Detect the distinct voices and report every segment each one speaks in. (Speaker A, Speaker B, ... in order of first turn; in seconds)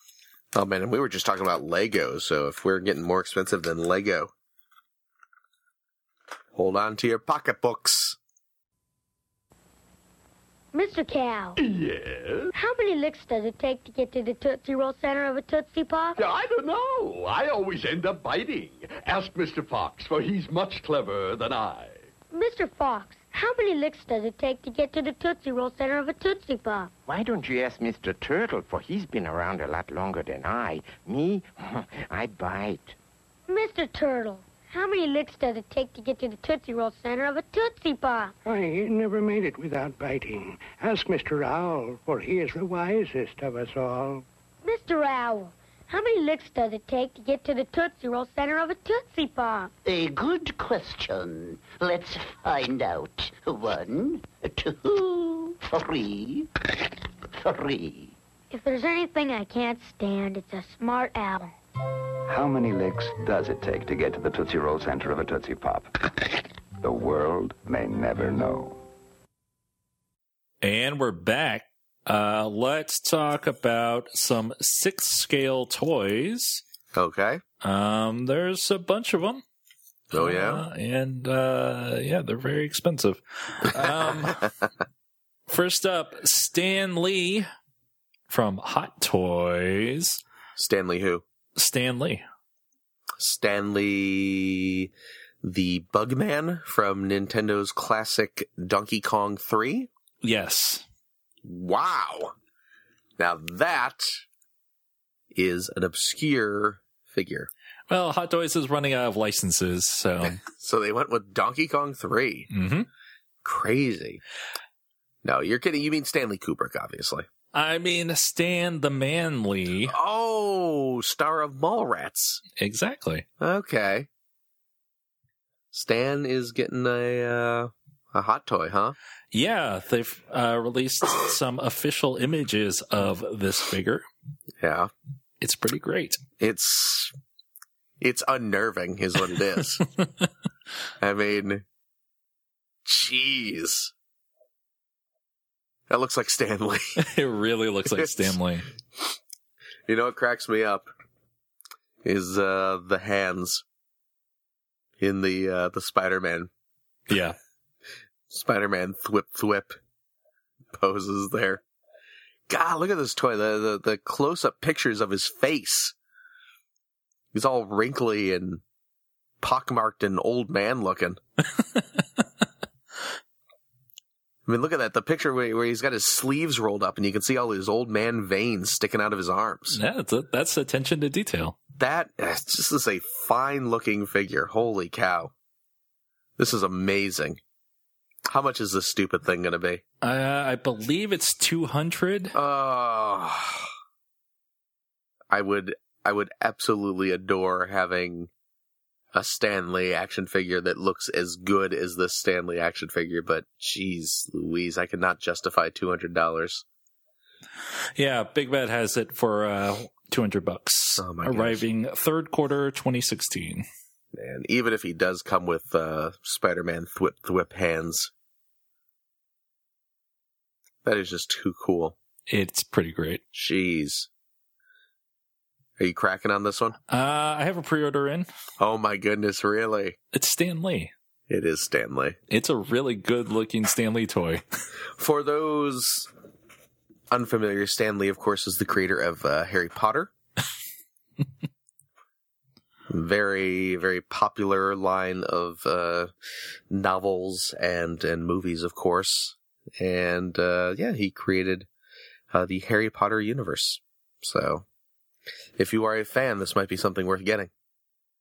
Speaker A: 0.5-4.3, 6.5-8.2, 76.9-77.4, 80.1-80.6, 90.6-91.2, 93.2-94.9, 95.4-99.9, 101.4-102.3, 103.2-104.1, 105.3-107.5, 110.2-112.5, 113.4-114.2, 115.2-117.2, 119.9-122.4, 123.4-124.1, 125.7-128.9, 134.6-134.9, 136.4-137.1, 138.0-139.8, 141.0-141.6, 142.8-143.9, 145.9-147.0, 147.9-148.3, 149.9-150.9, 152.0-153.6, 155.0-156.5, 158.3-159.7, 160.7-161.6, 162.5-165.9, 167.3-168.6, 169.4-171.2, 174.4-179.8, 181.8-185.3, 186.4-187.4, 188.3-189.8, 192.3-193.7, 195.3-198.3, 199.1-206.6, 211.0-211.6, 214.1-218.1, 220.8-221.9, 223.3-224.1, 225.8-226.8, 228.6-230.0, 231.3-232.2, 235.0-236.1, 237.1-240.1, 242.9-246.1, 246.7-251.7, 252.3-254.6, 255.6-257.5
Speaker B: 10.7-11.6, 12.5-16.2, 22.3-26.9, 33.5-38.3, 44.6-49.7, 58.5-61.5
Speaker C: 11.6-12.5, 16.2-22.1
Speaker D: 27.1-33.0
Speaker E: 38.5-44.2
Speaker F: 49.9-56.5, 57.3-58.1
Speaker G: 62.3-68.8
Speaker H: 70.6-76.6, 77.6-79.4, 80.1-84.5, 85.5-87.5, 88.3-90.2, 91.5-92.2, 100.2-100.8, 107.9-110.4, 112.5-112.9, 117.5-119.9, 122.6-123.2, 129.3-134.1, 135.4-136.2, 140.0-140.3, 147.0-148.7, 157.1-157.4, 171.8-172.2, 179.7-181.6, 190.0-192.3, 207.9-213.7, 222.3-223.2, 226.9-228.3, 230.1-230.9, 232.3-234.4